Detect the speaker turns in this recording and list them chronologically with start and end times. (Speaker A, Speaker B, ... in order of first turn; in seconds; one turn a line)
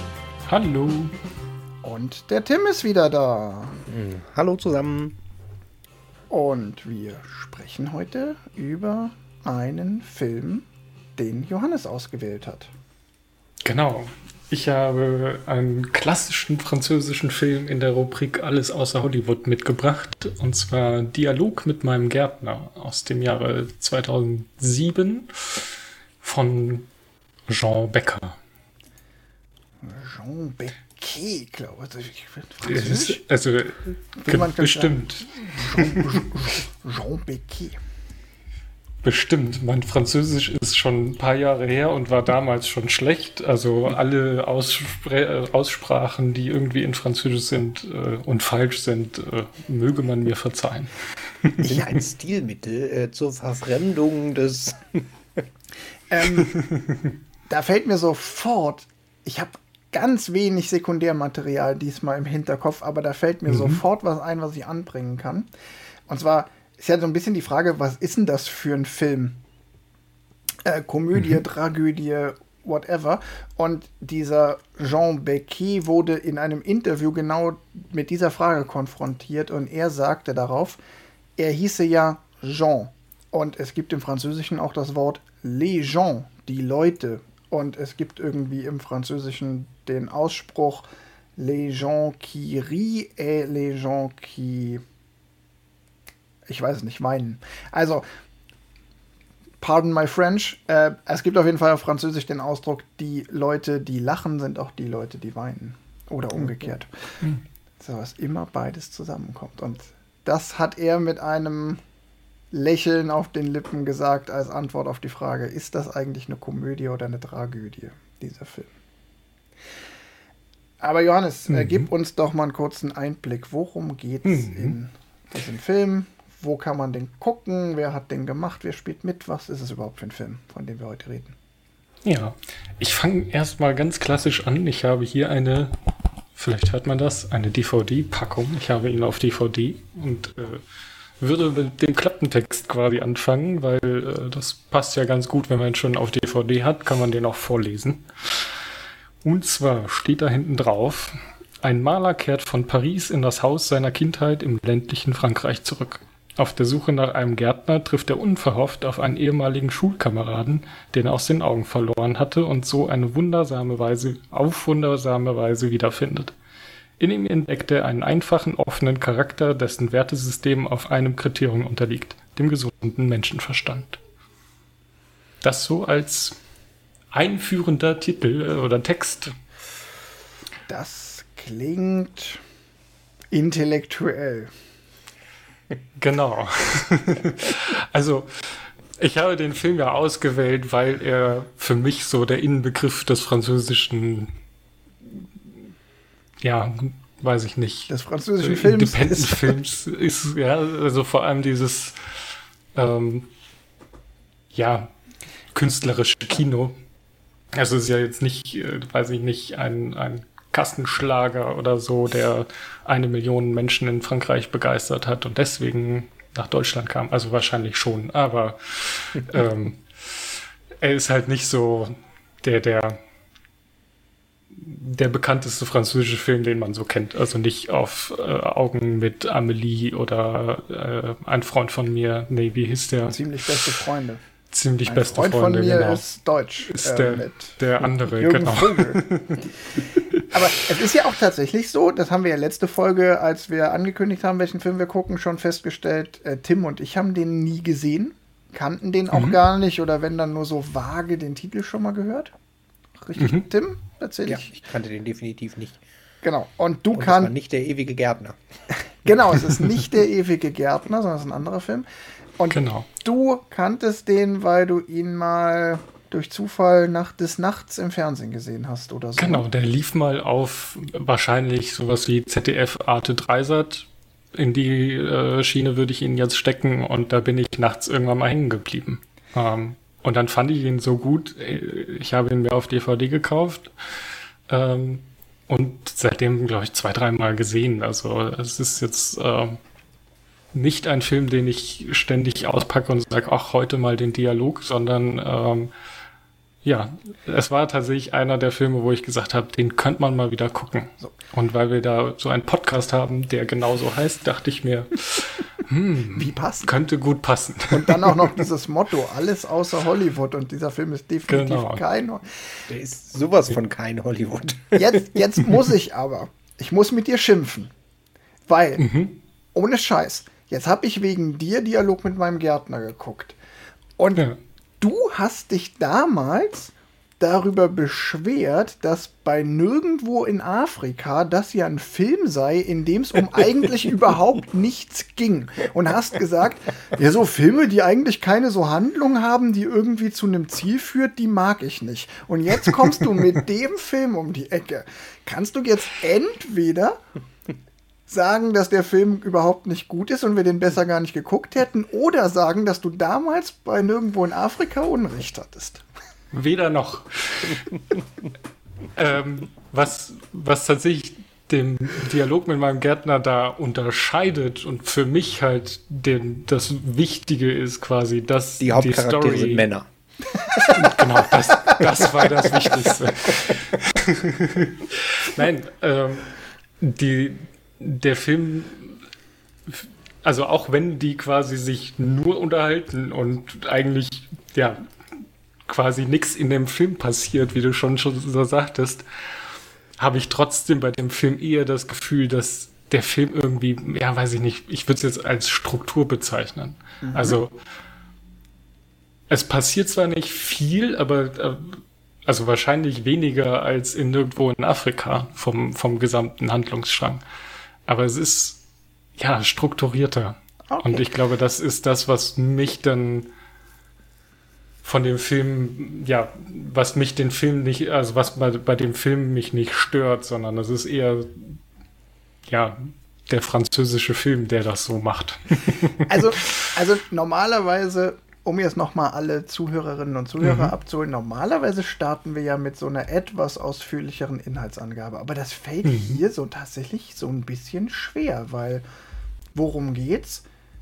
Speaker A: 0.5-1.1
Speaker B: 1.8-3.9
Speaker C: 3.9-5.2
Speaker B: 6.3-12.7
Speaker A: 13.6-25.7
Speaker A: 26.2-26.9
Speaker A: 27.5-28.4
Speaker B: 29.8-33.2
Speaker A: 32.6-36.2
Speaker B: 34.2-37.8
Speaker A: 39.0-50.9
Speaker C: 51.6-55.0
Speaker B: 56.1-56.5
Speaker A: 56.4-57.1
Speaker B: 57.5-65.5
Speaker A: 63.5-63.8
Speaker B: 66.1-69.4
Speaker B: 70.6-80.8
Speaker B: 81.4-94.8
Speaker B: 96.5-98.0
Speaker B: 99.6-107.2
Speaker B: 107.8-111.8
Speaker B: 112.5-118.7
Speaker B: 120.8-131.3
Speaker A: 121.5-121.9
Speaker A: 124.2-124.8
Speaker A: 132.1-135.7
Speaker A: 136.3-140.6
Speaker A: 141.2-148.5
Speaker A: 149.2-166.3
Speaker A: 167.0-174.0
Speaker A: 175.4-176.4
Speaker A: 177.1-179.3
Speaker B: 180.7-182.4
Speaker B: 183.3-184.5
Speaker A: 186.0-194.3
Speaker A: 196.4-202.0
Speaker B: 197.9-199.6
Speaker A: 202.8-203.3
Speaker A: 204.5-204.9
Speaker A: 205.5-206.8
Speaker A: 207.5-220.3
Speaker A: 220.8-223.0
Speaker A: 224.6-233.7
Speaker B: 233.1-234.2
Speaker A: 234.5-236.0
Speaker B: 234.9-239.0
Speaker A: 236.6-239.5
Speaker B: 240.2-252.3
Speaker B: 253.0-254.6
Speaker A: 253.2-253.4
Speaker C: 254.2-255.8
Speaker B: 256.2-257.3
Speaker C: 256.9-258.4
Speaker B: 259.0-261.9
Speaker B: 262.4-269.4
Speaker A: 262.5-262.9
Speaker A: 269.2-283.7
Speaker A: 284.5-289.6
Speaker A: 290.5-295.7
Speaker A: 296.6-308.4
Speaker B: 306.1-306.8
Speaker B: 307.7-312.4
Speaker A: 311.3-311.8
Speaker C: 312.7-315.1
Speaker B: 314.8-317.7
Speaker B: 318.5-318.8
Speaker A: 318.8-319.2
Speaker B: 319.5-323.4
Speaker B: 324.0-324.2
Speaker B: 324.8-347.0
Speaker B: 348.1-355.8
Speaker A: 356.3-357.6
Speaker A: 358.9-369.7
Speaker C: 368.6-369.9
Speaker C: 370.5-370.9
Speaker A: 370.7-379.0
Speaker A: 379.7-384.8
Speaker A: 385.7-389.1
Speaker A: 390.0-397.5
Speaker B: 397.0-397.4
Speaker A: 399.3-407.2
Speaker A: 407.9-408.6
Speaker A: 409.2-413.3
Speaker B: 410.7-411.1
Speaker A: 414.8-421.6
Speaker A: 422.5-426.1
Speaker B: 426.0-438.8
Speaker A: 430.4-430.7
Speaker A: 435.9-436.2
Speaker B: 439.5-440.4